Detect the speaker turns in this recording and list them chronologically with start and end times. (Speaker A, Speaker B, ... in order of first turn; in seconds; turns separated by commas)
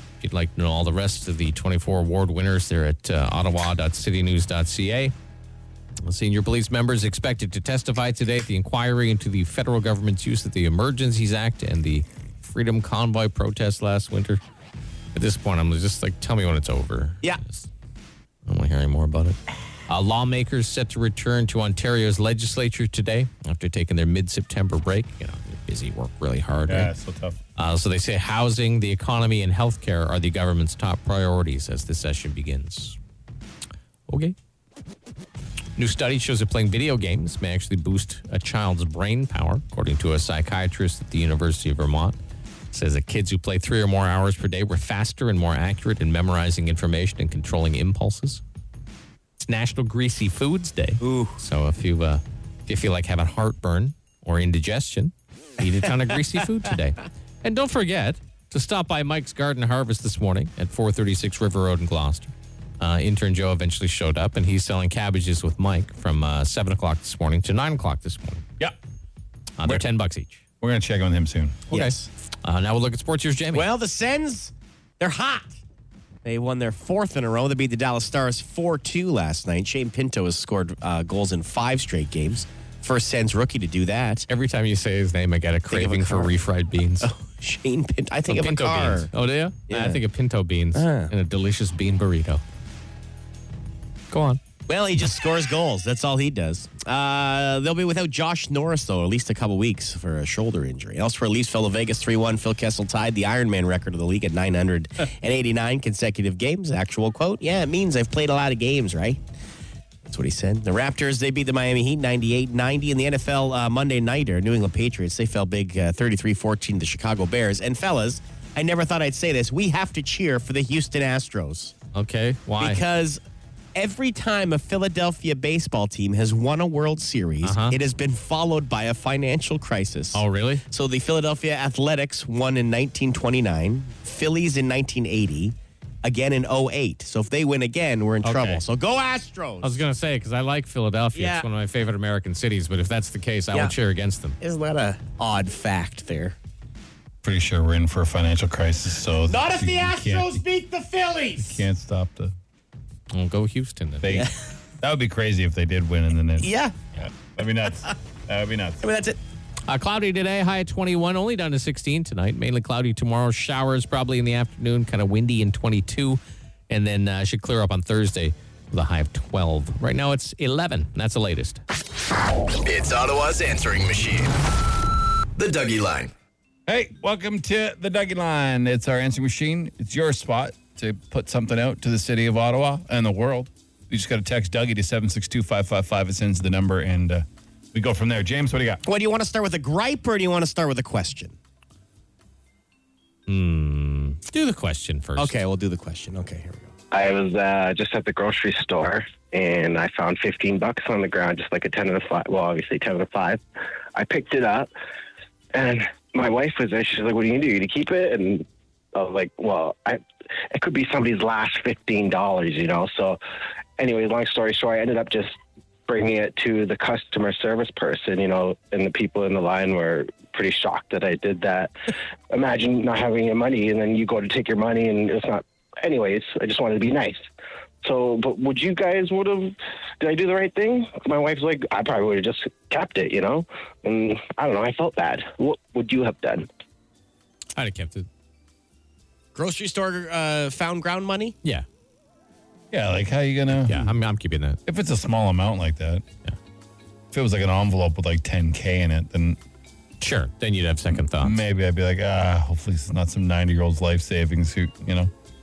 Speaker A: 0.2-5.1, Speaker A: 6.0-14.4, Speaker A: 15.1-17.7, Speaker A: 18.5-26.9, Speaker B: 26.7-27.4, Speaker A: 27.6-33.0, Speaker A: 34.1-34.4, Speaker A: 35.8-42.2, Speaker A: 42.7-48.4, Speaker A: 49.4-68.5, Speaker C: 51.0-51.4, Speaker A: 69.6-70.4, Speaker B: 70.6-71.7, Speaker C: 71.7-72.1, Speaker A: 71.7-73.7, Speaker C: 73.5-75.6, Speaker C: 76.2-84.3, Speaker A: 84.3-87.1, Speaker C: 85.7-86.3, Speaker C: 87.0-89.1, Speaker A: 88.3-92.4, Speaker C: 89.7-90.0, Speaker C: 90.8-91.1, Speaker A: 94.1-94.4, Speaker C: 94.7-109.2, Speaker C: 110.1-121.7, Speaker A: 121.9-122.8, Speaker C: 122.6-123.2, Speaker C: 123.8-139.7, Speaker A: 127.4-127.8, Speaker A: 130.1-130.6, Speaker A: 138.2-138.6, Speaker A: 139.6-144.4, Speaker C: 141.2-141.5, Speaker C: 144.4-146.4, Speaker B: 147.2-150.4, Speaker C: 149.3-151.6, Speaker B: 151.4-152.3, Speaker A: 153.1-154.2, Speaker B: 154.0-158.8, Speaker C: 154.1-154.3, Speaker C: 156.4-156.8, Speaker C: 158.8-159.2, Speaker A: 159.7-171.6, Speaker D: 172.6-174.3, Speaker D: 175.4-176.1, Speaker B: 176.7-188.8, Speaker C: 188.9-191.4, Speaker A: 193.3-195.3, Speaker C: 195.2-196.7, Speaker E: 196.9-203.4, Speaker E: 203.9-204.7, Speaker E: 205.5-210.0, Speaker E: 210.5-213.2, Speaker E: 213.8-215.4, Speaker E: 215.9-221.7, Speaker E: 222.3-227.2, Speaker E: 227.8-236.5, Speaker A: 237.6-238.1, Speaker C: 239.3-241.4, Speaker B: 242.7-243.9, Speaker A: 243.6-244.6, Speaker B: 244.7-246.0, Speaker B: 247.1-249.4, Speaker A: 250.0-251.4, Speaker B: 250.9-255.1